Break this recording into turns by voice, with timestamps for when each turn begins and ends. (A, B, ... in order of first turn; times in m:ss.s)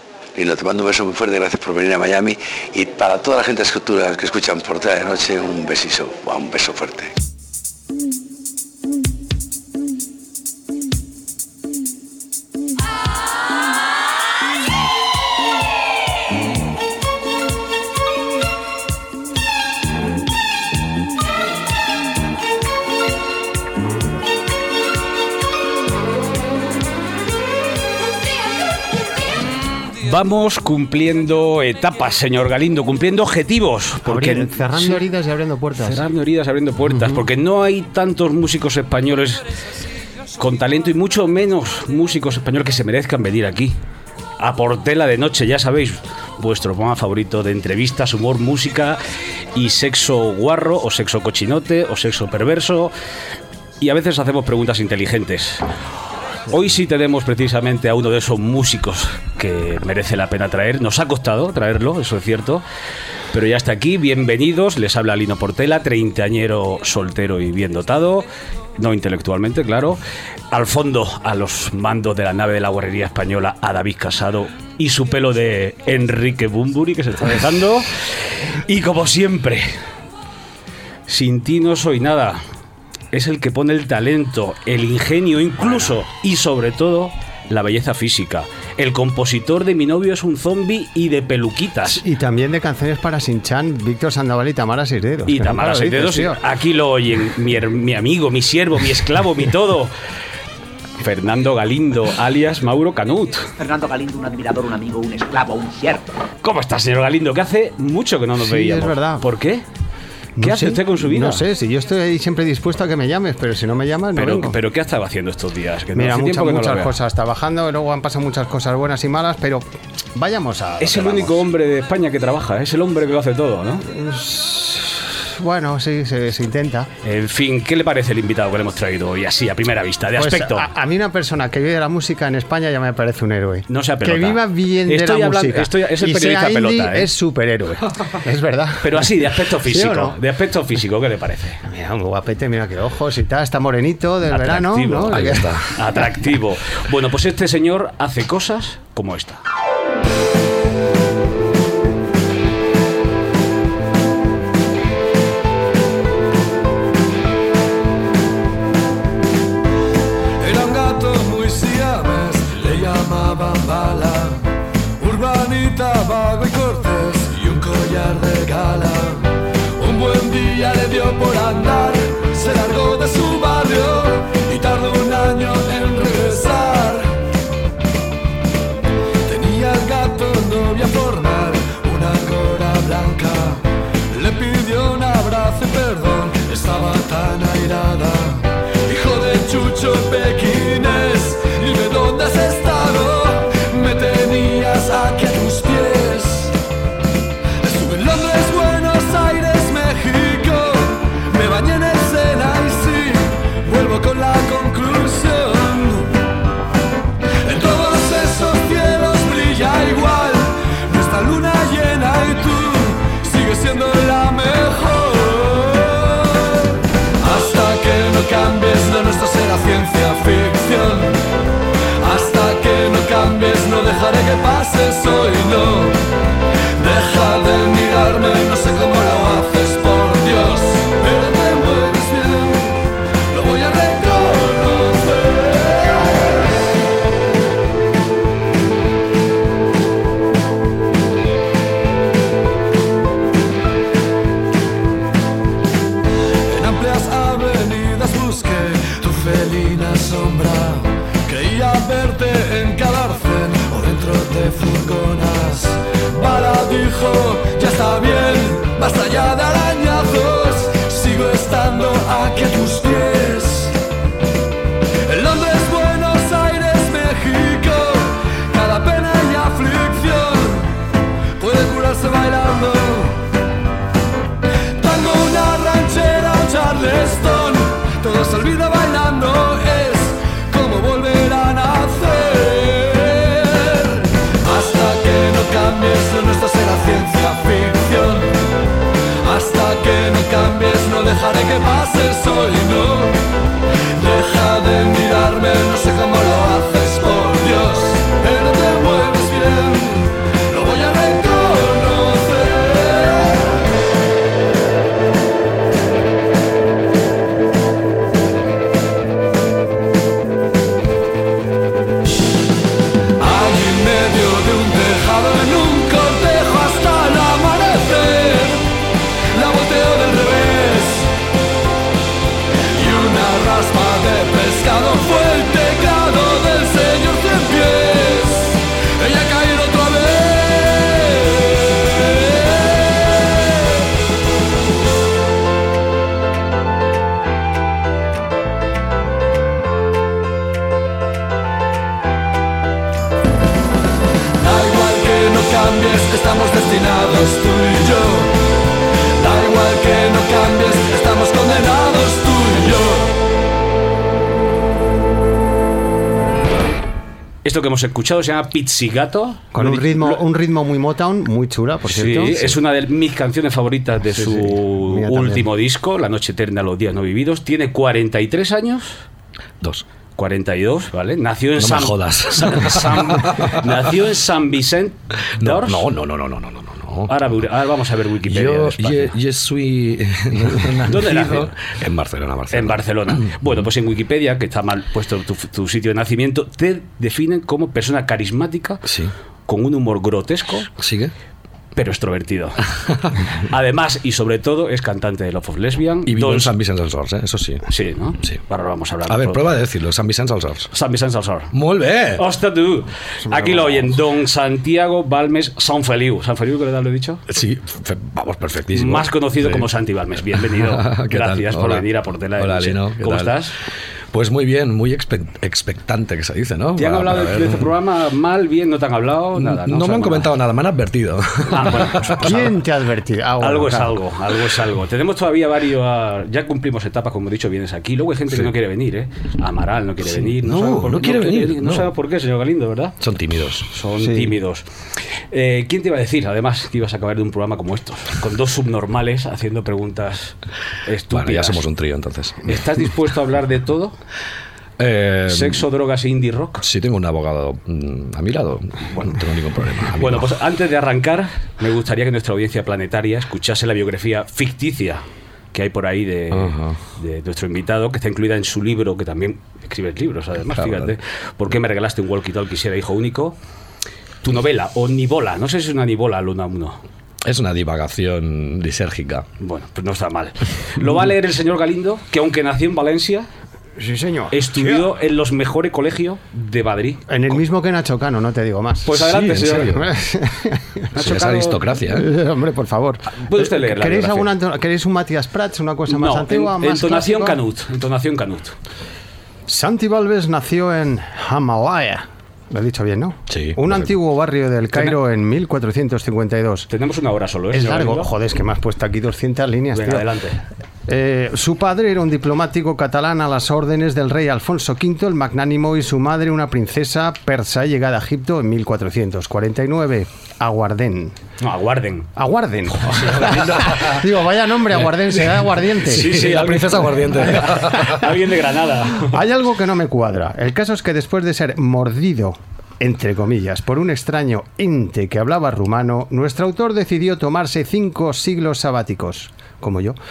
0:00.4-0:07.1 A
0:30.0-0:35.0 B
0:34.0-0:36.0 C
0:35.8-0:39.4 B
0:36.9-0:37.2 C
0:40.4-0:43.8 B
0:44.4-0:49.0 B
0:49.5-0:52.9 B
0:53.8-0:55.6 B
0:56.5-1:02.6 B
1:03.3-1:08.3 B
1:08.8-1:10.0 B
1:10.5-1:19.7 B
1:21.1-1:22.4 B
1:23.1-1:32.0 B
1:31.9-1:36.4 C
1:35.3-1:39.9 B
1:41.0-1:43.5 B
1:43.6-1:46.1 D
1:46.4-1:49.6 B
1:48.4-1:49.3 C
1:50.4-1:54.6 C
1:50.4-1:51.4 B
1:54.1-1:56.9 B
1:55.9-2:01.5 C
2:00.8-2:03.8 B
2:03.9-2:06.9 C
2:07.0-2:10.7 B
2:10.2-2:20.2 C
2:13.7-2:17.1 B
2:18.8-2:21.6 B
2:21.6-2:25.6 C
2:24.3-2:29.4 B
2:25.1-2:25.7 E
2:40.4-2:44.4 F
2:45.0-2:57.1 F
2:59.2-3:16.6 F
3:17.6-3:26.1 F
3:27.4-3:36.7 F
3:37.2-3:41.2 F
3:42.0-3:46.0 F
3:46.8-3:52.8 F
3:53.3-3:56.2 F
4:06.5-4:23.8 F
4:25.0-4:30.7 F
4:31.4-4:33.2 F
4:34.8-4:48.3 F
4:49.2-4:53.2 F
4:54.0-5:03.4 F
5:13.2-5:18.6 F
5:19.3-5:21.1 F
5:22.7-5:33.4 F
5:44.4-5:48.3 F
5:49.2-5:53.1 F
5:57.4-6:00.2 B
5:59.5-6:02.4 C
6:01.8-6:09.0 B
6:04.1-6:05.5 C
6:09.6-6:09.8 E
6:10.2-6:15.9 B
6:11.6-6:13.7 E
6:15.4-6:17.1 E
6:17.1-6:19.1 B
6:18.2-6:23.4 E
6:20.8-6:21.5 B
6:22.5-6:28.8 B
6:28.8-6:29.1 E
6:29.5-6:30.7 B
6:30.8-6:31.1 E
6:31.7-6:32.6 B
6:33.4-6:36.5 B
6:36.0-6:37.6 E
6:37.7-6:39.5 B
6:39.0-6:40.7 E
6:40.7-6:41.5 B
6:41.5-6:42.2 E
6:42.1-6:47.2 B
6:43.2-6:44.0 C
6:47.3-6:49.7 E
6:48.7-6:53.5 B
6:50.3-6:53.4 E
6:54.1-6:57.7 E
6:56.8-7:00.3 B
6:59.3-7:02.6 E
7:01.4-7:02.5 B
7:02.2-7:04.0 C
7:03.4-7:13.0 B
7:10.0-7:11.9 E
7:13.0-7:13.7 E
7:13.6-7:14.6 B
7:14.0-7:14.3 C
7:15.3-7:21.6 B
7:21.1-7:22.6 E
7:22.4-7:24.0 B
7:24.8-7:25.6 E
7:25.3-7:26.6 B
7:26.6-7:30.3 E
7:30.0-7:43.4 B
7:36.3-7:36.8 E
7:40.5-7:40.9 E
7:44.2-7:46.8 B
7:47.2-7:49.3 E
7:49.4-7:53.3 B
7:53.8-7:54.9 C
7:54.3-7:57.0 B
7:57.1-8:00.8 C
7:58.8-7:59.8 B
7:58.9-7:59.9 E
8:00.9-8:01.7 B
8:00.9-8:02.1 E
8:01.9-8:07.4 C
8:03.1-8:04.3 B
8:05.9-8:08.5 B
8:09.5-8:16.7 C
8:13.3-8:13.9 E
8:16.7-8:18.1 B
8:17.5-8:20.1 C
8:19.7-8:20.4 B
8:20.9-8:31.2 C
8:31.4-8:32.1 B
8:32.2-8:36.4 C
8:32.8-8:33.9 B
8:35.8-8:39.2 B
8:35.8-8:38.0 E
8:37.2-8:38.1 C
8:39.1-8:50.0 C